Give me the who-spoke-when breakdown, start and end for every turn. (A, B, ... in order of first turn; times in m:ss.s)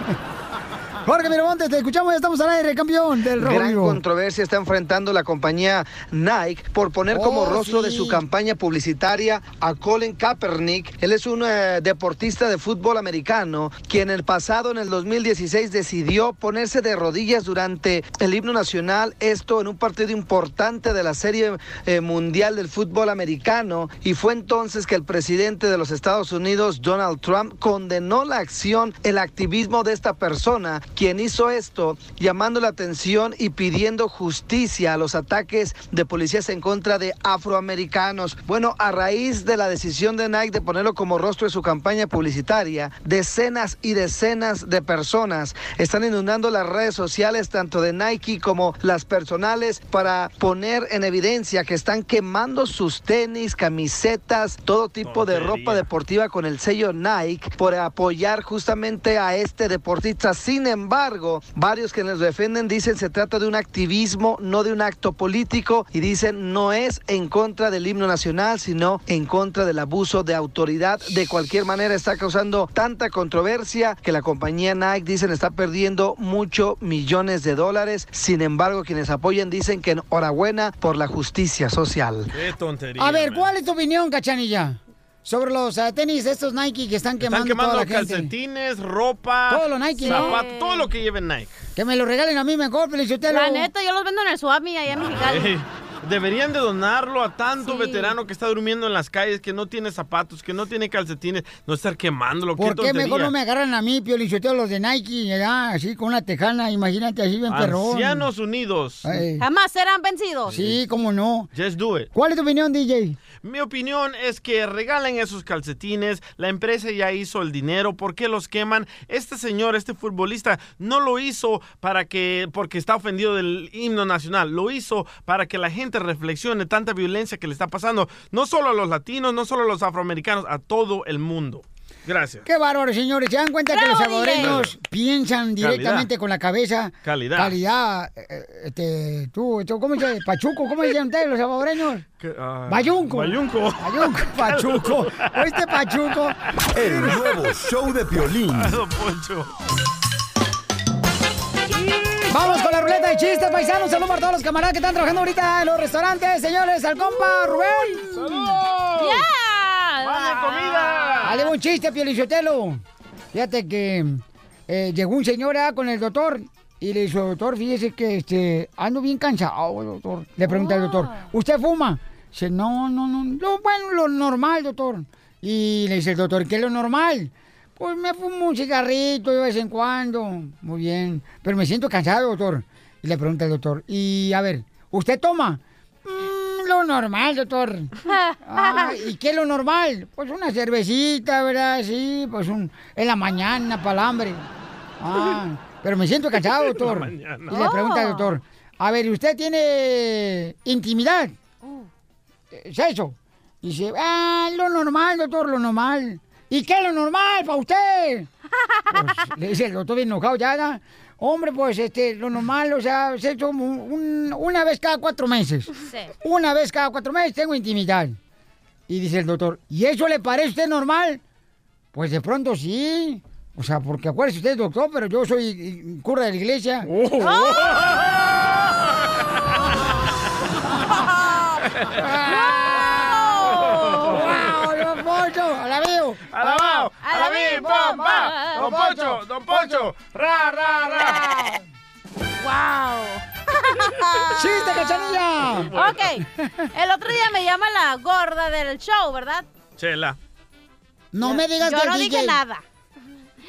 0:01.0-0:04.0 A
0:03.4-1:22.3 B
0:07.1-0:08.2 A
0:55.0-0:55.8 C
1:22.3-1:23.5 C
1:23.0-1:28.3 A
1:27.2-1:31.5 C
1:29.5-1:30.4 A
1:30.0-1:30.9 D
1:31.8-1:33.7 A
1:33.3-1:35.6 D
1:35.0-1:43.3 C
1:37.6-1:38.1 D
1:42.6-1:48.3 A
1:47.5-1:49.2 C
1:49.0-1:49.4 A
1:49.4-1:50.5 D
1:50.5-1:51.5 A
1:50.5-1:50.8 C
1:51.5-1:52.1 C
1:52.1-1:53.2 A
1:53.4-2:12.5 C
2:12.4-2:22.0 A
2:13.7-2:14.5 D
2:14.4-2:14.7 C
2:15.6-2:16.1 C
2:17.0-2:17.6 C
2:22.2-2:25.3 C
2:22.7-2:27.2 A
2:26.7-2:28.8 E
2:28.5-2:29.5 C
2:32.3-2:38.6 A
2:38.1-2:39.3 C
2:39.0-2:41.4 D
2:40.0-2:41.5 C
2:41.2-3:07.9 A
2:50.5-2:51.2 D
3:08.1-3:08.9 D
3:08.4-3:14.5 A
3:15.0-3:21.4 A
3:16.6-3:17.6 C
3:17.5-3:18.3 D
3:22.5-3:28.3 A
3:28.9-3:38.2 A
3:38.9-3:41.2 A
3:41.9-3:46.9 A
3:47.0-3:48.0 C
3:47.2-3:47.8 D
3:51.0-3:51.6 D
3:51.9-3:52.6 A
3:52.3-3:54.2 D
3:54.0-4:01.5 A
3:54.1-3:54.6 C
3:56.3-4:00.3 C
3:57.0-3:58.6 D
4:00.9-4:01.3 C
4:02.4-4:04.3 D
4:04.4-4:06.7 A
4:05.5-4:06.0 C
4:05.8-4:06.2 D
4:06.8-4:09.5 D
4:09.8-4:10.2 C
4:11.1-4:12.4 A
4:11.2-4:12.6 D